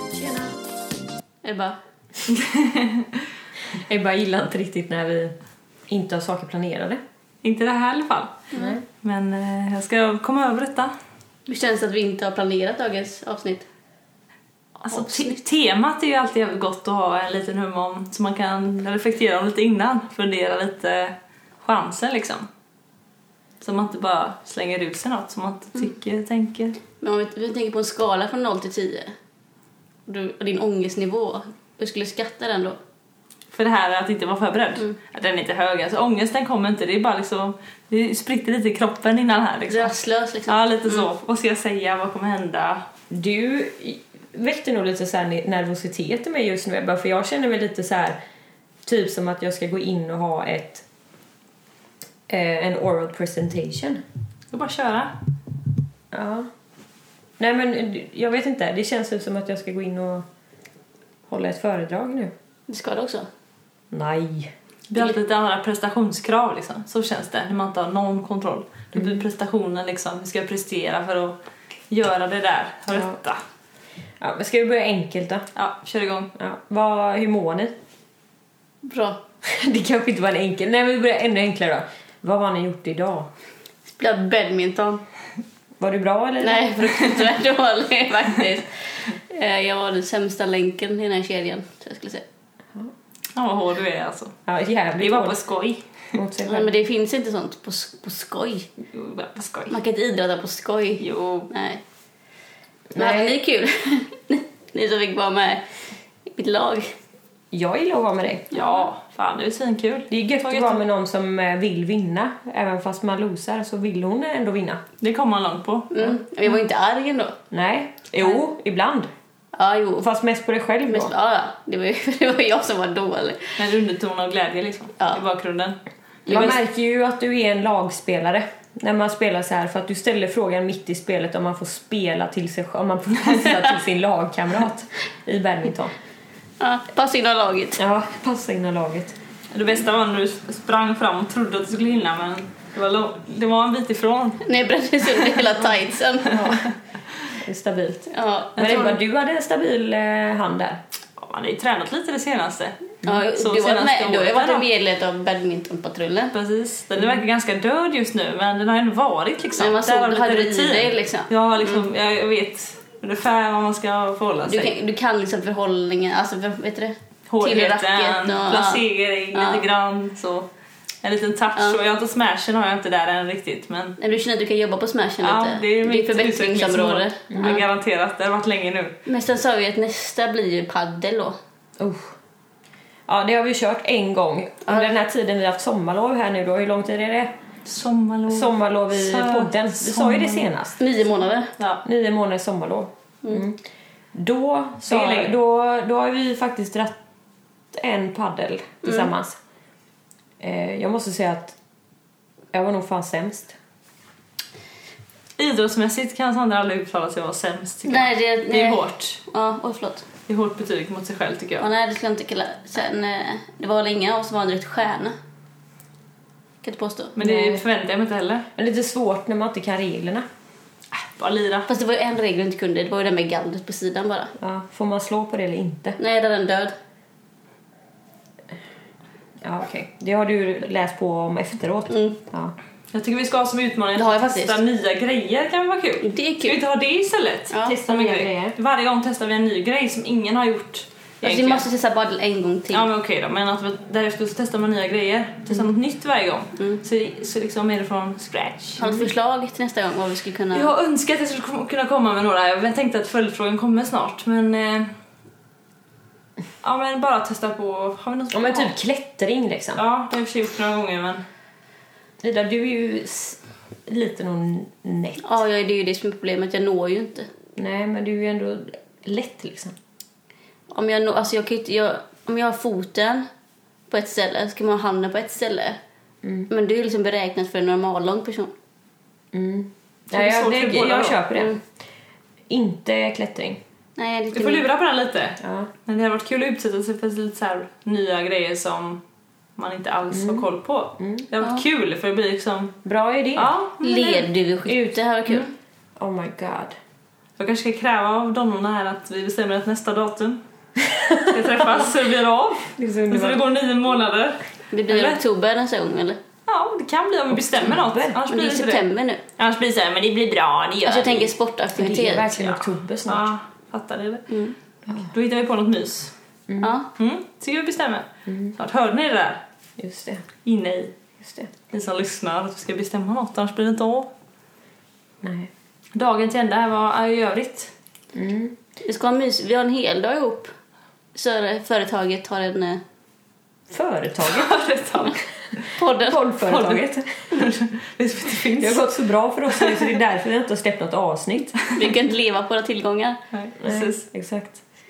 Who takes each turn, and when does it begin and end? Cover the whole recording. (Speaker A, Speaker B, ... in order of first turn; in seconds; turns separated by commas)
Speaker A: 0.1-0.6, Speaker B: 1.4-1.8, Speaker C: 2.3-3.2, Speaker A: 3.7-5.4, Speaker A: 5.9-7.0, Speaker C: 7.4-8.5, Speaker A: 8.5-8.8, Speaker C: 9.0-10.9, Speaker B: 11.5-13.7, Speaker B: 14.8-15.4, Speaker C: 14.9-22.5, Speaker C: 23.6-26.8, Speaker B: 27.0-29.1, Speaker B: 30.1-32.8, Speaker C: 33.5-40.0, Speaker B: 39.7-40.9, Speaker C: 40.5-42.9, Speaker A: 43.1-48.2, Speaker A: 48.9-50.9, Speaker A: 52.3-54.0, Speaker C: 54.5-55.1, Speaker A: 56.1-56.5, Speaker A: 57.4-60.2, Speaker A: 61.3-62.3, Speaker B: 62.7-63.3, Speaker A: 63.9-64.5, Speaker C: 64.9-71.4, Speaker A: 69.0-69.2, Speaker C: 71.9-73.4, Speaker A: 74.2-75.5, Speaker C: 75.6-76.3, Speaker A: 76.3-77.8, Speaker B: 78.8-79.2, Speaker A: 79.4-83.3, Speaker B: 83.9-85.0, Speaker A: 85.8-87.2, Speaker B: 86.4-92.2, Speaker C: 93.4-94.4, Speaker A: 94.5-95.4, Speaker C: 95.0-96.1, Speaker A: 96.1-96.7, Speaker B: 96.5-98.7, Speaker C: 98.9-99.8, Speaker B: 99.7-101.8, Speaker C: 101.0-101.5, Speaker A: 102.9-103.4, Speaker B: 103.0-105.6, Speaker B: 106.3-107.0, Speaker A: 107.5-108.5, Speaker C: 108.5-110.8, Speaker B: 108.5-108.9, Speaker A: 110.1-114.8, Speaker C: 115.0-115.9, Speaker B: 115.9-117.4, Speaker A: 117.5-119.1, Speaker B: 119.5-120.1, Speaker A: 120.0-121.1, Speaker B: 120.9-123.6, Speaker C: 123.6-125.8, Speaker B: 126.3-126.6, Speaker A: 126.3-135.9, Speaker B: 136.6-137.8, Speaker A: 137.8-139.2, Speaker C: 139.5-144.4, Speaker B: 144.4-146.6, Speaker C: 145.2-145.5, Speaker A: 146.3-146.7, Speaker C: 146.3-146.7, Speaker A: 147.3-150.8, Speaker B: 148.1-149.0, Speaker C: 148.6-148.9, Speaker C: 151.2-152.8, Speaker B: 153.0-156.3, Speaker C: 153.3-154.7, Speaker C: 156.3-164.7, Speaker B: 159.6-161.8, Speaker B: 164.5-168.8, Speaker C: 167.3-170.5, Speaker B: 169.3-169.6, Speaker C: 171.0-174.0, Speaker B: 174.0-177.6, Speaker C: 175.2-179.0, Speaker A: 177.3-177.6, Speaker B: 179.1-181.4, Speaker A: 181.8-182.2, Speaker A: 183.1-187.3, Speaker B: 184.7-184.9, Speaker C: 187.7-190.5, Speaker A: 188.3-190.8, Speaker B: 190.8-191.5, Speaker A: 191.8-193.6, Speaker A: 194.1-197.0, Speaker C: 194.9-195.3, Speaker A: 197.7-199.4, Speaker B: 198.8-199.1, Speaker A: 200.4-201.6, Speaker A: 202.5-203.6, Speaker C: 205.4-209.2, Speaker B: 207.9-210.1, Speaker C: 210.3-211.7, Speaker B: 211.6-215.2, Speaker B: 216.6-217.2, Speaker C: 217.2-218.5, Speaker A: 217.2-217.6, Speaker A: 218.6-220.2, Speaker C: 220.9-221.7, Speaker B: 221.7-224.3, Speaker A: 224.4-226.0, Speaker B: 226.0-226.7, Speaker A: 229.4-232.6, Speaker B: 231.9-232.2, Speaker C: 232.9-241.6, Speaker B: 233.9-234.6, Speaker B: 236.0-236.6, Speaker B: 237.5-237.8, Speaker A: 237.7-238.6, Speaker B: 241.2-242.9, Speaker C: 242.7-248.8, Speaker B: 248.8-250.7, Speaker C: 250.5-254.9, Speaker C: 256.6-258.7, Speaker A: 258.3-259.8, Speaker C: 259.8-261.2, Speaker A: 262.2-265.4, Speaker B: 265.2-267.3, Speaker A: 267.6-269.8, Speaker B: 270.7-273.3, Speaker B: 273.9-275.8, Speaker A: 276.2-276.5, Speaker B: 276.5-278.5, Speaker A: 279.3-281.6, Speaker C: 280.1-281.2, Speaker A: 282.5-283.6, Speaker B: 284.0-284.7, Speaker C: 284.3-289.0, Speaker A: 285.4-285.7, Speaker C: 289.6-292.8, Speaker A: 290.1-290.5, Speaker A: 291.0-291.2, Speaker A: 292.9-293.5, Speaker C: 293.4-294.3, Speaker B: 293.8-295.5, Speaker A: 294.7-295.0, Speaker A: 296.0-296.7, Speaker C: 297.4-300.4, Speaker A: 300.8-301.6, Speaker C: 301.2-305.2, Speaker A: 302.7-303.4, Speaker B: 304.7-306.2, Speaker C: 306.5-308.9, Speaker A: 307.6-308.2, Speaker B: 308.3-309.2, Speaker C: 309.4-311.3, Speaker B: 310.9-312.4, Speaker A: 311.8-313.3, Speaker C: 312.3-314.3, Speaker B: 314.3-314.6, Speaker C: 314.9-316.1, Speaker A: 316.5-316.8, Speaker B: 316.6-316.9, Speaker C: 317.0-319.4, Speaker A: 318.3-318.6, Speaker A: 319.8-320.3, Speaker C: 320.4-320.9, Speaker A: 321.2-321.5, Speaker C: 321.7-324.1, Speaker A: 325.2-325.5, Speaker C: 325.9-327.7, Speaker A: 328.1-328.6, Speaker B: 328.8-330.5, Speaker B: 331.1-332.8, Speaker A: 333.7-334.5, Speaker C: 334.3-335.2, Speaker B: 335.8-336.2, Speaker A: 336.0-337.4, Speaker C: 336.4-338.9, Speaker A: 338.6-341.6, Speaker C: 339.5-340.0, Speaker B: 341.8-343.2, Speaker C: 343.3-344.0, Speaker A: 343.6-344.6